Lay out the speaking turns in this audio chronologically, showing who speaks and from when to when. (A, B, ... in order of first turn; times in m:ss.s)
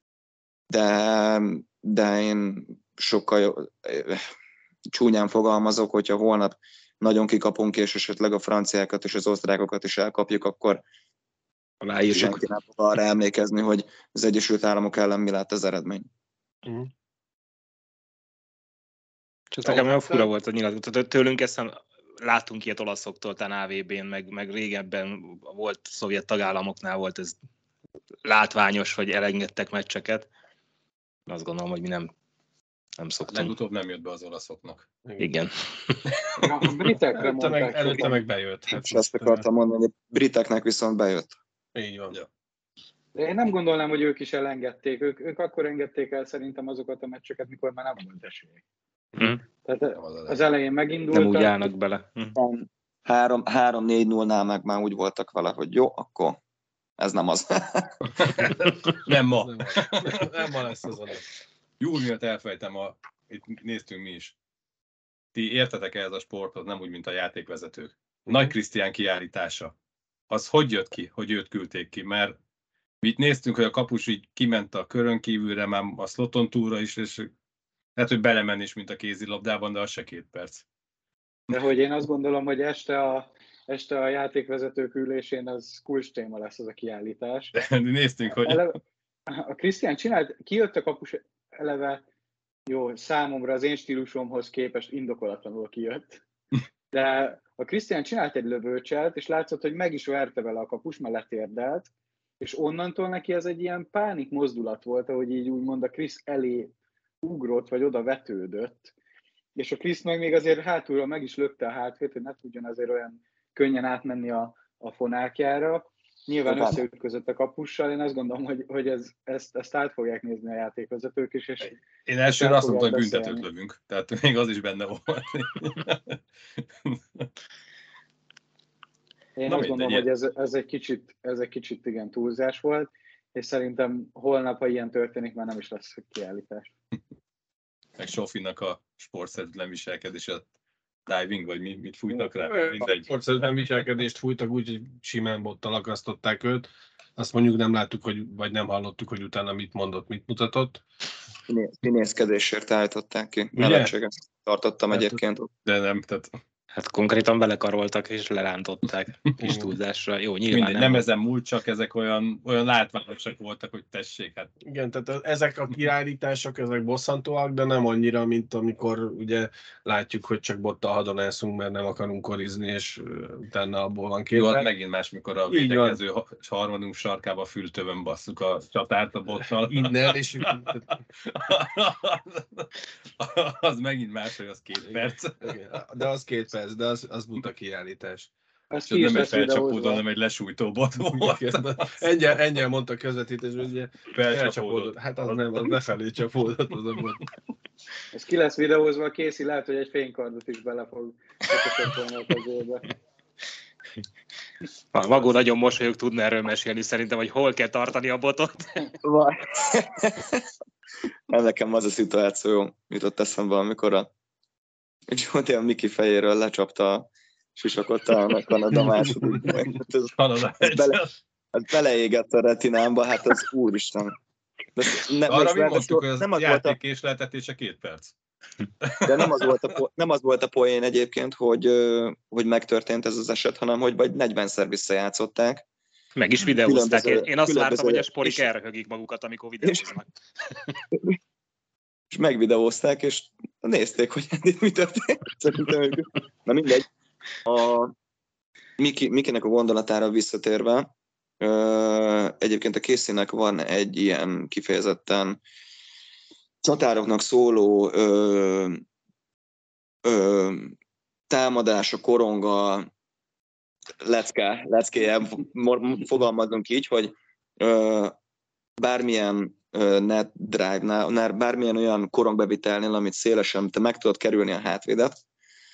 0:00.7-0:04.2 A
0:04.9-0:10.8 A
0:11.8-0:12.4 B
0:12.1-0:16.1 A
0:19.5-0:27.4 B
0:28.2-0:30.3 B
0:31.3-0:32.1 B
0:33.0-0:33.5 B
0:33.3-0:34.9 C
0:35.2-0:36.0 B
0:36.4-0:38.1 D
0:37.2-0:39.4 E
0:38.7-0:41.4 A
0:41.7-0:42.1 E
0:43.1-0:48.6 D
0:49.6-0:51.6 D
0:50.0-0:50.4 C
0:51.1-0:52.4 B
0:52.4-0:56.4 A
0:57.0-0:58.5 A
0:58.9-1:00.2 C
0:59.4-1:01.2 E
1:01.8-1:04.3 C
1:05.3-1:09.7 C
1:08.3-1:08.5 E
1:10.3-1:12.4 C
1:13.0-1:17.3 C
1:18.0-1:20.6 C
1:21.5-1:27.5 D
1:27.5-1:28.7 C
1:28.3-1:28.8 D
1:29.3-1:32.0 D
1:32.7-1:36.2 D
1:36.9-1:41.9 D
1:42.4-1:48.9 D
1:49.6-2:01.8 D
1:56.4-1:56.8 A
2:02.0-2:06.2 C
2:02.3-2:03.4 D
2:06.9-2:07.3 C
2:09.4-2:16.7 D
2:09.5-2:10.0 C
2:18.0-2:20.5 C
2:21.1-2:23.1 C
2:22.1-2:30.8 E
2:31.5-2:35.5 A
2:33.6-2:33.9 E
2:35.6-2:36.3 C
2:36.7-2:41.1 B
2:39.4-2:39.7 E
2:40.5-2:44.5 C
2:44.6-2:54.7 E
2:54.4-3:05.5 C
2:55.5-2:56.0 E
2:59.6-3:00.9 E
3:04.8-3:08.3 E
3:08.7-3:10.0 D
3:08.9-3:12.0 C
3:11.1-3:17.2 E
3:14.1-3:15.7 C
3:18.1-3:22.9 D
3:24.9-3:28.9 B
3:29.0-3:30.4 A
3:31.3-3:34.1 A
3:35.1-3:41.0 A
3:40.2-3:41.1 C
3:41.5-3:44.2 A
3:44.8-3:46.8 A
3:45.3-3:48.1 C
3:48.8-3:49.6 C
3:49.0-3:55.6 A
3:56.2-4:00.1 B
3:56.5-3:58.5 A
4:02.1-4:06.9 A
4:07.4-4:07.9 A
4:08.8-4:10.9 A
4:11.4-4:15.4 A
4:16.6-4:18.8 A
4:20.0-4:20.7 A
4:21.3-4:22.9 A
4:24.0-4:28.2 A
4:28.8-4:35.2 A